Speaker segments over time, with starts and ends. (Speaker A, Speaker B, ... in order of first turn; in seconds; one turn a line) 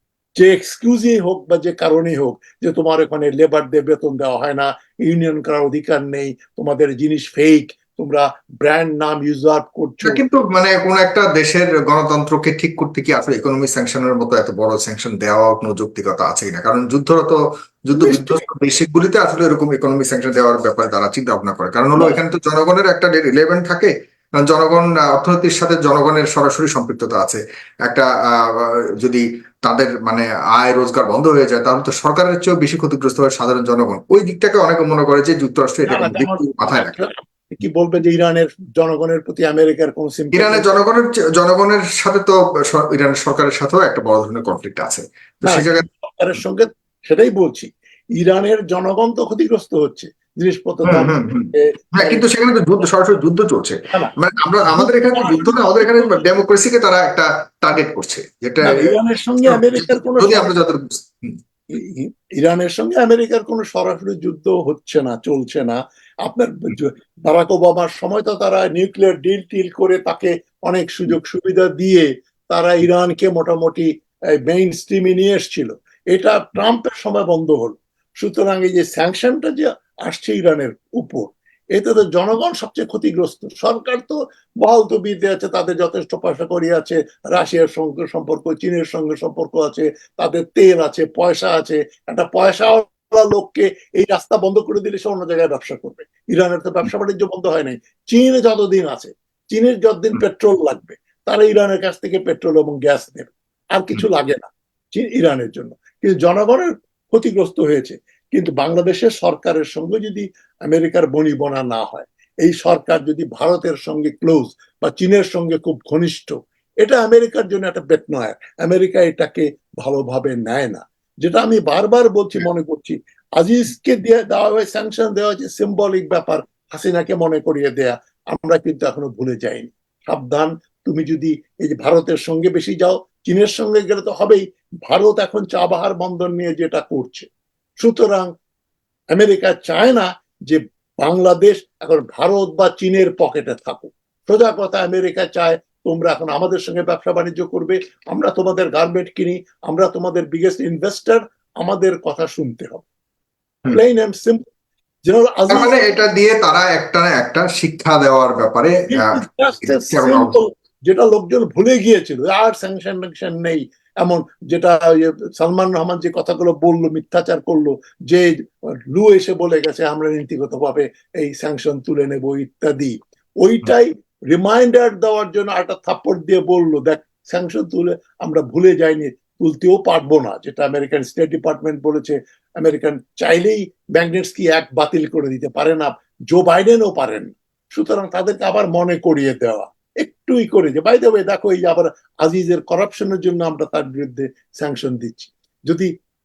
Speaker A: 0.4-10.2
Speaker B: 10.1-37.0
Speaker A: 17.9-18.4
Speaker A: 22.0-22.2
Speaker A: 35.9-40.8
Speaker B: 40.3-45.9
Speaker A: 45.5-52.3
Speaker B: 50.9-61.4
Speaker A: 54.7-56.3
Speaker A: 58.6-60.6
Speaker A: 61.7-73.9
Speaker A: 74.5-137.3
Speaker A: 137.8-138.3
Speaker A: 139.1-152.8
Speaker A: 153.7-154.5
Speaker A: 155.1-155.8
Speaker B: 155.5-160.4
Speaker A: 158.9-168.3
Speaker A: 168.9-195.9